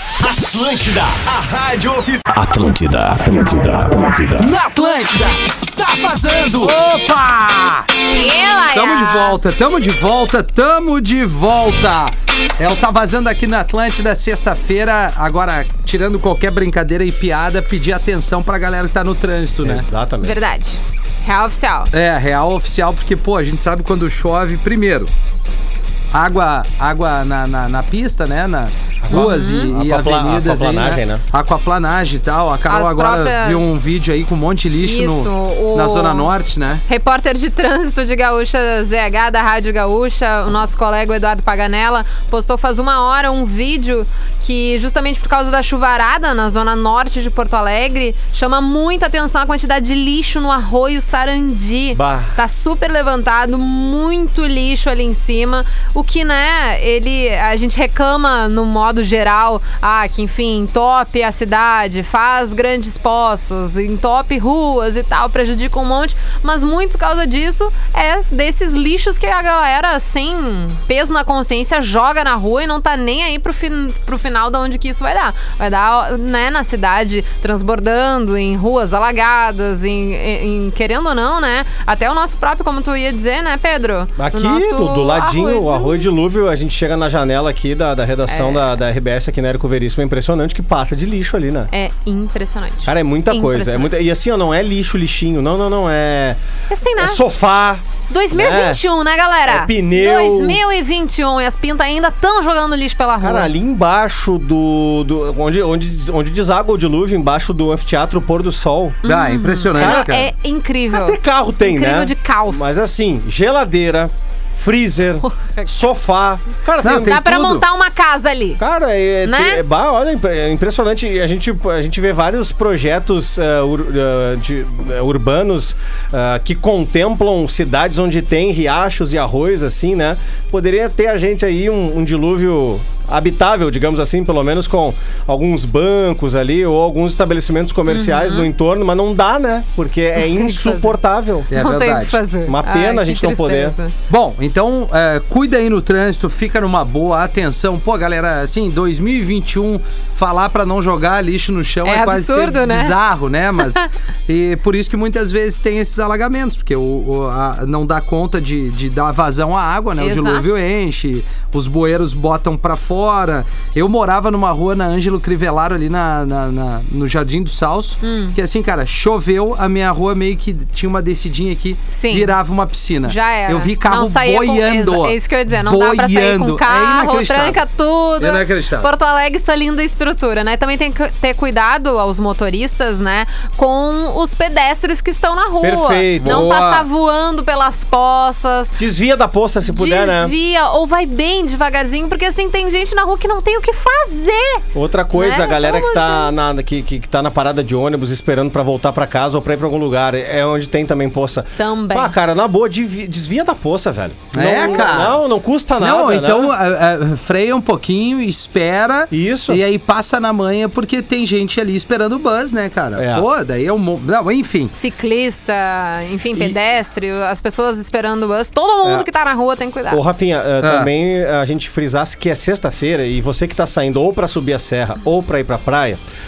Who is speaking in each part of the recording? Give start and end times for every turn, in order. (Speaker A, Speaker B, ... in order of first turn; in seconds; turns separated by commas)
Speaker A: 0.2-4.6, Speaker B: 4.4-7.9, Speaker C: 8.1-9.4, Speaker B: 8.7-19.9, Speaker D: 19.6-20.4, Speaker C: 20.2-21.9, Speaker B: 21.9-25.1, Speaker B: 26.1-36.8, Speaker D: 29.0-31.2, Speaker C: 29.1-29.7, Speaker C: 32.7-33.6, Speaker C: 34.8-36.3, Speaker C: 36.9-86.1, Speaker D: 51.9-52.4, Speaker D: 84.2-91.7, Speaker C: 88.3-88.6, Speaker C: 91.7-93.9, Speaker D: 92.9-96.4, Speaker C: 96.7-97.2, Speaker D: 97.0-98.8, Speaker C: 98.1-103.5, Speaker D: 99.5-100.6, Speaker D: 103.2-109.0, Speaker B: 109.0-110.3, Speaker C: 109.0-112.7, Speaker D: 109.8-110.1, Speaker D: 110.9-117.3, Speaker B: 116.8-117.6, Speaker C: 116.9-118.6, Speaker D: 118.6-141.5, Speaker C: 119.2-119.6, Speaker C: 137.9-138.5, Speaker C: 140.2-140.9, Speaker B: 141.5-142.2, Speaker C: 141.5-143.9, Speaker D: 142.4-143.8, Speaker B: 144.1-177.6, Speaker C: 151.8-153.0, Speaker C: 160.0-160.5, Speaker C: 168.0-168.4, Speaker C: 171.9-172.3, Speaker C: 173.0-188.7, Speaker B: 178.2-178.9, Speaker D: 185.6-186.5, Speaker B: 186.2-186.9, Speaker D: 188.8-190.3, Speaker C: 189.7-196.3, Speaker D: 194.7-206.5, Speaker C: 201.6-202.1, Speaker B: 204.3-205.2, Speaker B: 205.8-214.7, Speaker D: 209.1-209.6, Speaker D: 212.9-213.3, Speaker C: 214.8-220.0, Speaker D: 218.8-219.1, Speaker D: 219.9-226.0, Speaker B: 220.6-220.9